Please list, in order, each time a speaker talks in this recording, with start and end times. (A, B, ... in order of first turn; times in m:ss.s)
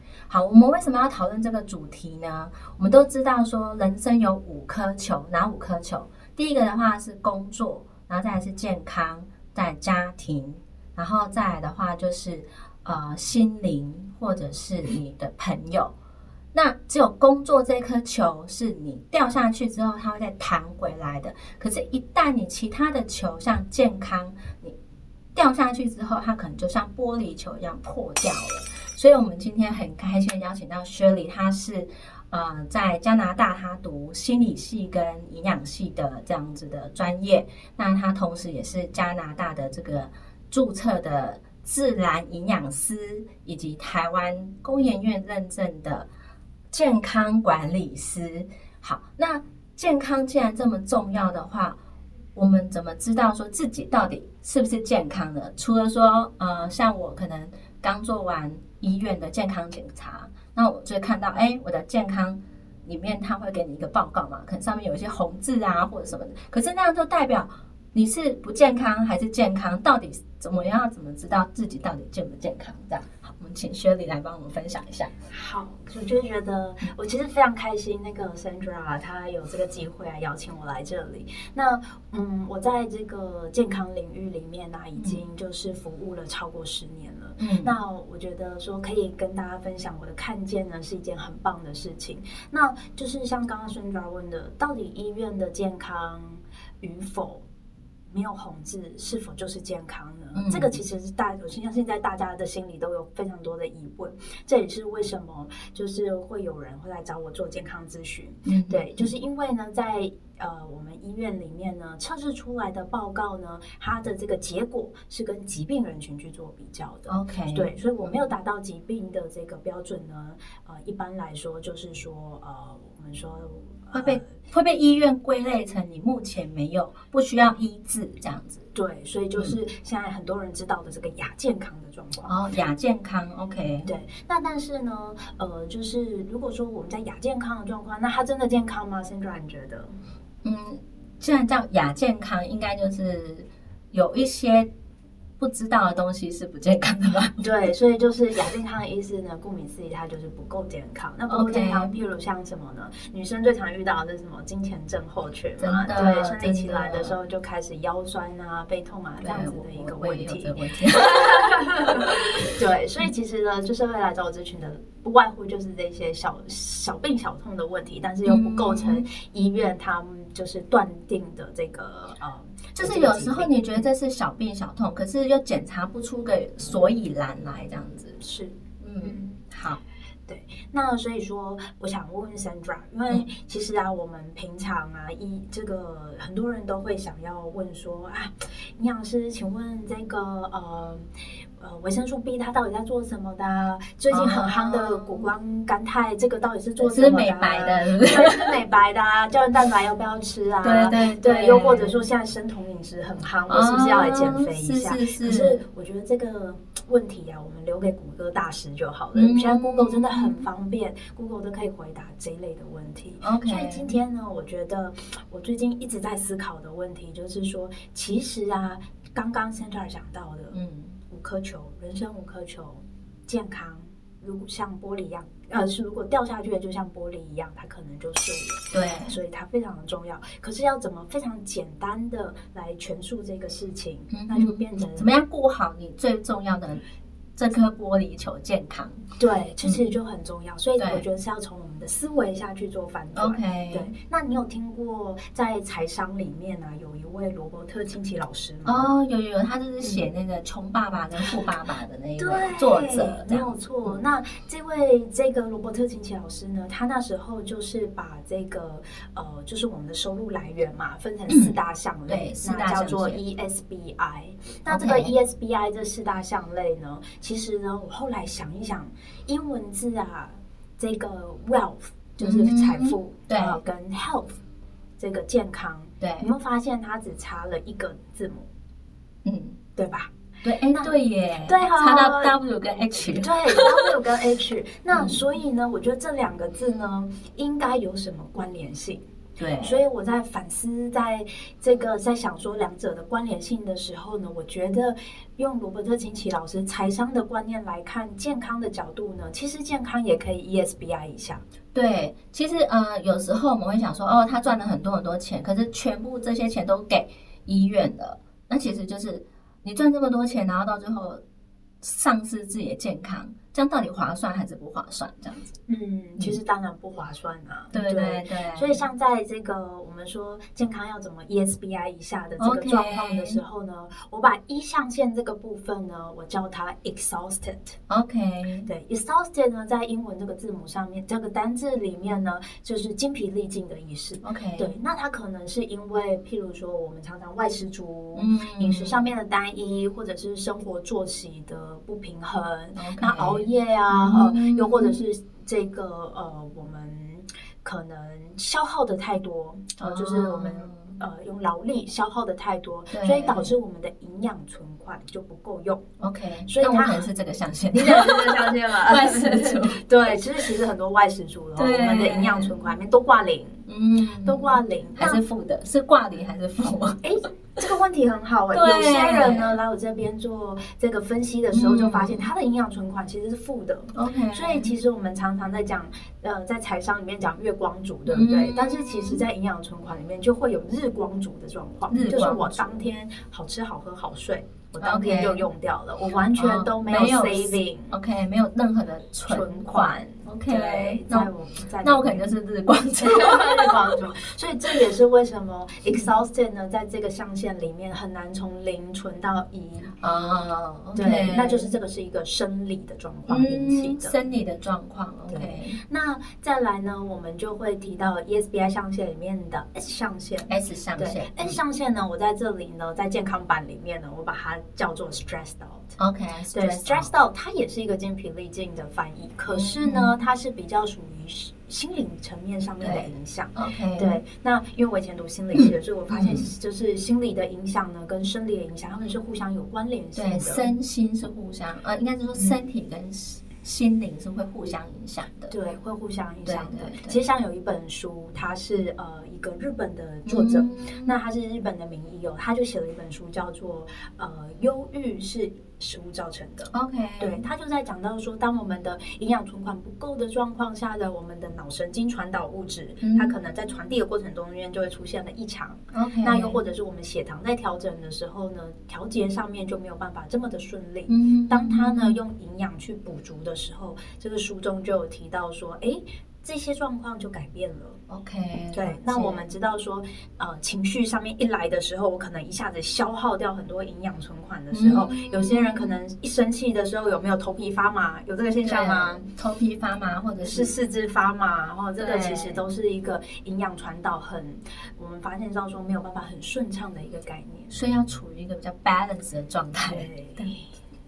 0:00.3-0:15.9 A
0:16.5-0:24.8 A
0:25.4-0:46.1 A
0:46.7-0:51.8 A
0:52.4-1:15.1 A
1:15.3-1:37.4 B
1:27.4-1:27.7 A
1:38.1-2:04.3 B
1:40.3-1:40.8 A
1:48.5-1:49.1 A
1:57.1-1:57.7 A
2:03.9-2:08.7 A
2:08.8-2:12.4 B
2:12.3-2:13.9 A
2:13.9-2:19.9 B
2:20.4-2:24.7 A
2:25.4-2:27.4 A
2:27.4-2:53.5 B
2:31.3-2:31.9 A
2:35.6-2:37.2 A
2:39.2-2:42.3 A
2:48.2-2:49.1 A
2:52.8-2:58.2 A
2:58.2-2:59.4 B
2:58.8-2:59.8 A
3:00.3-3:40.6 B
3:14.1-3:15.3 A
3:16.8-3:18.6 A
3:20.6-3:22.0 A
3:23.5-3:25.6 A
3:29.2-3:30.5 A
3:33.2-3:33.9 A
3:40.5-3:41.0 A
3:41.1-3:55.1 B
3:48.7-3:49.2 A
3:54.1-3:56.8 A
3:57.4-3:59.0 A
3:59.2-4:08.9 B
4:00.8-4:01.0 A
4:03.2-4:03.9 A
4:08.6-4:14.0 A
4:12.2-4:34.4 B
4:21.3-4:21.6 A
4:22.1-4:23.2 A
4:24.7-4:25.1 A
4:32.2-4:33.6 A
4:35.0-4:38.5 B
4:36.0-4:36.3 A
4:39.2-4:39.6 A
4:39.8-4:40.1 B
4:40.4-4:43.9 A
4:40.7-4:40.9 B
4:41.5-4:42.4 B
4:43.1-4:49.0 B
4:44.9-4:45.2 A
4:49.4-4:49.8 A
4:49.6-5:01.4 B
5:01.7-5:11.2 A
5:11.8-5:15.6 A
5:15.7-5:27.8 B
5:17.7-5:18.8 A
5:22.4-5:23.4 A
5:27.9-5:28.7 A
5:28.7-5:55.8 B
5:34.2-5:34.7 A
5:38.2-5:39.0 A
5:42.8-5:45.0 A
5:49.8-5:51.0 A
5:52.9-5:53.5 A
5:56.0-6:00.4 A
5:56.5-5:57.1 B
5:57.7-6:03.6 B
6:01.6-6:02.6 A
6:03.7-6:07.0 A
6:04.2-6:05.2 B
6:07.0-6:27.9 B
6:08.5-6:09.6 A
6:11.5-6:12.2 A
6:13.9-6:14.7 A
6:18.1-6:19.2 A
6:21.9-6:22.8 A
6:24.8-6:25.4 A
6:26.4-6:31.3 A
6:29.3-6:32.3 B
6:31.8-6:33.9 A
6:33.0-6:40.0 B
6:40.0-6:41.7 A
6:40.9-6:44.2 B
6:43.3-6:45.8 A
6:45.3-6:56.0 B
6:50.5-6:51.6 A
6:56.0-6:57.1 A
6:56.5-7:10.7 B
6:59.5-7:00.2 A
7:02.8-7:04.2 A
7:05.6-7:06.5 A
7:10.2-7:15.5 A
7:15.5-7:48.0 B
7:16.5-7:17.2 A
7:20.3-7:21.1 A
7:26.7-7:27.4 A
7:33.0-7:33.3 A
7:35.9-7:36.6 A
7:41.1-7:42.2 A
7:48.1-7:49.5 A
7:48.7-7:59.3 B
7:54.7-7:56.0 A
7:58.6-8:00.7 A
8:00.4-8:07.8 B
8:02.0-8:02.6 A
8:07.7-8:10.5 A
8:09.9-8:10.7 B